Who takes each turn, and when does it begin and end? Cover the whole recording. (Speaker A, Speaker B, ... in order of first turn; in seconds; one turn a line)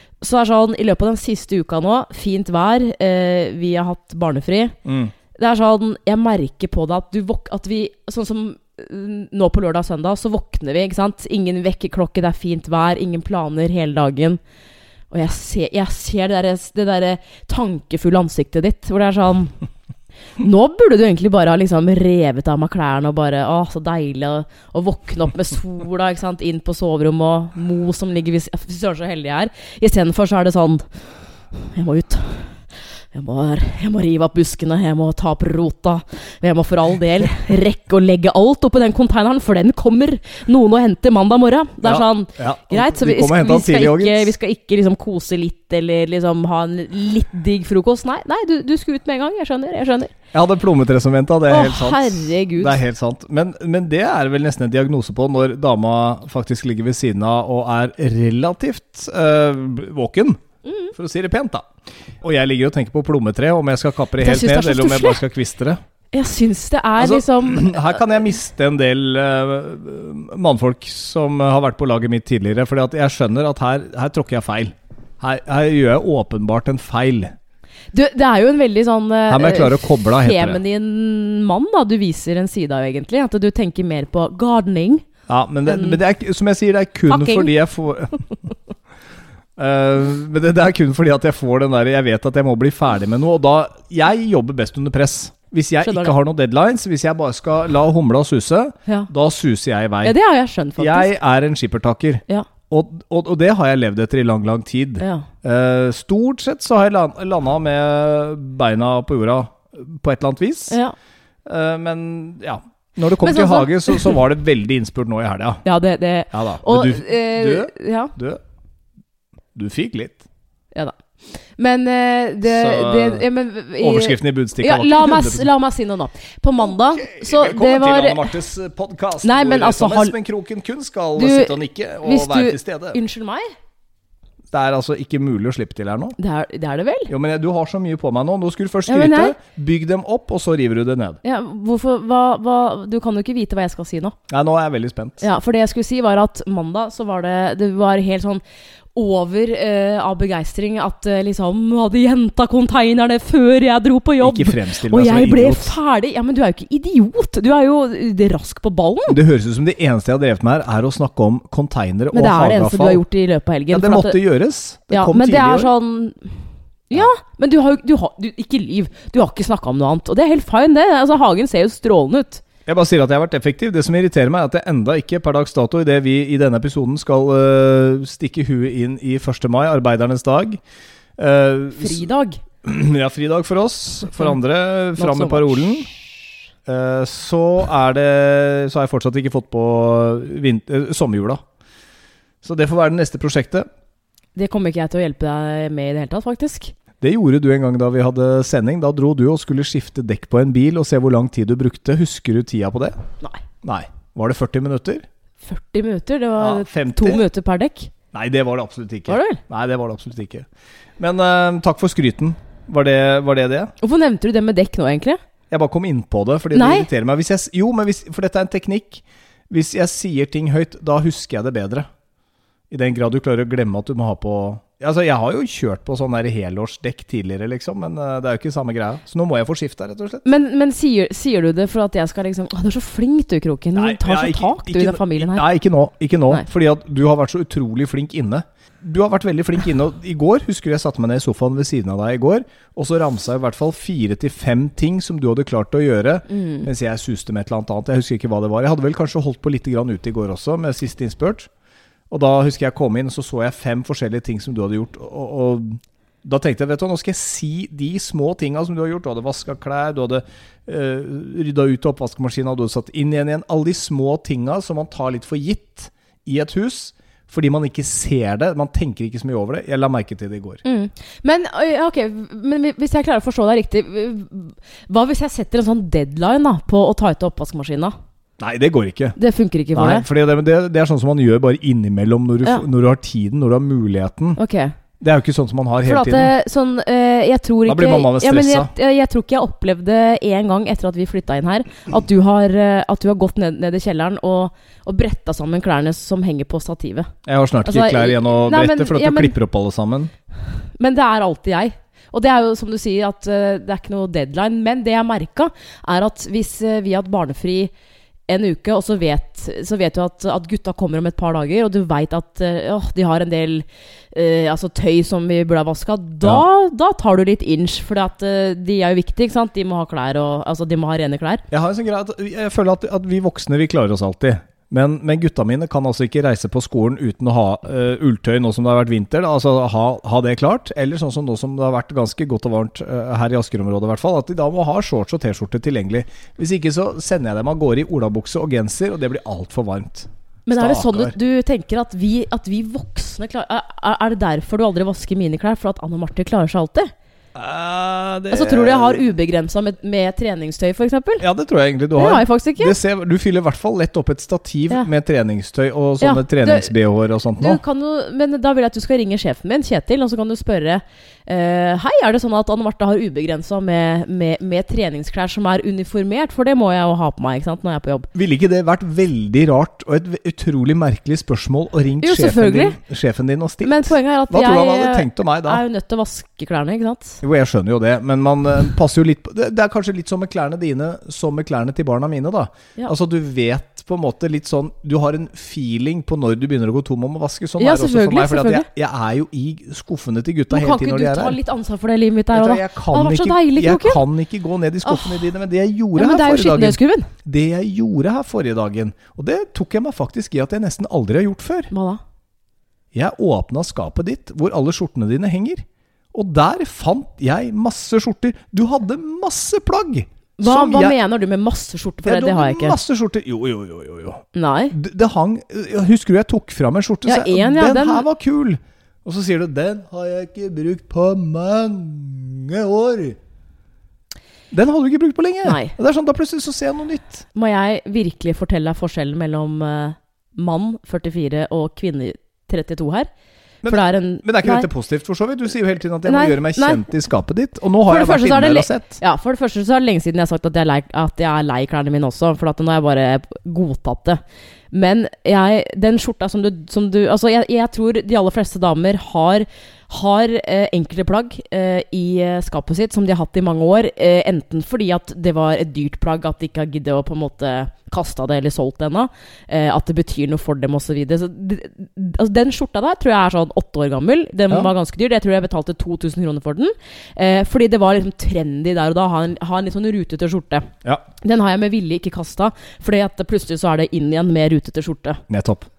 Speaker A: 0.2-4.8
Speaker B: 4.8-5.1
Speaker A: 5.3-14.4
Speaker A: 15.1-19.5
Speaker A: 20.4-30.8
Speaker A: 31.6-32.6
Speaker A: 33.1-50.1
Speaker B: 41.8-44.3
Speaker B: 50.3-60.4
Speaker A: 51.5-52.8
Speaker A: 60.6-60.9
Speaker B: 60.9-65.8
Speaker A: 64.2-65.2
Speaker A: 66.1-68.0
Speaker B: 67.0-77.3
Speaker A: 77.9-85.0
Speaker B: 79.3-80.6
Speaker B: 85.3-88.3
Speaker A: 85.7-86.0
Speaker A: 87.1-87.5
Speaker B: 89.6-100.2
Speaker A: 95.8-96.1
Speaker A: 100.0-101.1
Speaker B: 100.8-110.8
Speaker A: 105.0-105.3
Speaker B: 111.5-115.6
Speaker A: 113.2-114.1
Speaker A: 115.7-118.1
Speaker B: 116.3-118.4
Speaker B: 119.5-120.2
Speaker A: 120.7-128.3
Speaker B: 122.5-123.2
Speaker B: 123.8-125.5
Speaker B: 126.6-133.0
Speaker A: 129.2-130.1
Speaker A: 131.2-133.5
Speaker B: 134.5-136.2
Speaker A: 136.2-137.1
Speaker B: 137.1-141.2
Speaker A: 138.9-139.4
Speaker A: 141.2-144.2
Speaker B: 144.3-145.2
Speaker A: 145.2-148.4
Speaker A: 148.9-159.2
Speaker B: 154.2-155.8
Speaker B: 159.1-163.0
Speaker A: 162.1-164.2
Speaker B: 163.7-165.7
Speaker A: 164.9-166.4
Speaker A: 166.9-172.4
Speaker B: 172.7-180.6
Speaker B: 181.2-182.1
Speaker A: 181.8-182.4
Speaker B: 182.6-185.9
Speaker A: 185.0-185.5
Speaker B: 186.7-191.4
Speaker B: 192.4-193.7
Speaker A: 194.4-196.7
Speaker B: 197.0-203.0
Speaker B: 203.6-205.1
Speaker A: 205.4-207.9
Speaker B: 206.4-207.2
Speaker B: 208.1-210.5
Speaker A: 209.1-209.4
Speaker B: 211.0-213.7
Speaker A: 213.8-215.2
Speaker B: 215.5-221.9
Speaker A: 216.5-216.9
Speaker B: 222.7-230.2
Speaker A: 230.2-235.5
Speaker B: 233.8-251.5
Speaker A: 246.3-246.7
Speaker B: 252.1-270.6
Speaker A: 270.6-277.9
Speaker B: 278.4-279.2
Speaker A: 279.2-280.1
Speaker B: 279.8-284.4
Speaker A: 284.4-284.8
Speaker B: 285.0-286.3
Speaker A: 285.8-297.1
Speaker B: 287.7-288.7
Speaker B: 297.2-300.1
Speaker A: 297.6-299.3
Speaker A: 300.8-307.7
Speaker A: 308.3-321.4
Speaker B: 321.5-341.1
Speaker A: 340.5-346.9
Speaker B: 347.4-349.1
Speaker A: 348.3-351.2
Speaker B: 351.2-357.6
Speaker A: 352.0-352.8
Speaker A: 356.0-356.7
Speaker A: 357.4-368.1
Speaker B: 368.1-375.6
Speaker A: 372.0-372.8
Speaker A: 373.6-377.2
Speaker B: 377.2-391.4
Speaker A: 387.6-388.7
Speaker A: 390.5-394.0
Speaker B: 392.3-401.7
Speaker A: 394.8-395.2
Speaker A: 396.0-397.1
Speaker A: 401.7-402.0
Speaker B: 402.9-411.0
Speaker A: 410.4-412.8
Speaker B: 412.0-423.2
Speaker A: 414.4-414.8
Speaker A: 417.1-418.1
Speaker B: 424.5-427.3
Speaker A: 425.4-425.7
Speaker A: 427.3-433.1
Speaker B: 433.6-439.0
Speaker A: 433.6-434.7
Speaker A: 436.1-436.9
Speaker A: 437.9-444.2
Speaker A: 444.7-470.7
Speaker A: 471.2-475.2
Speaker B: 475.3-475.7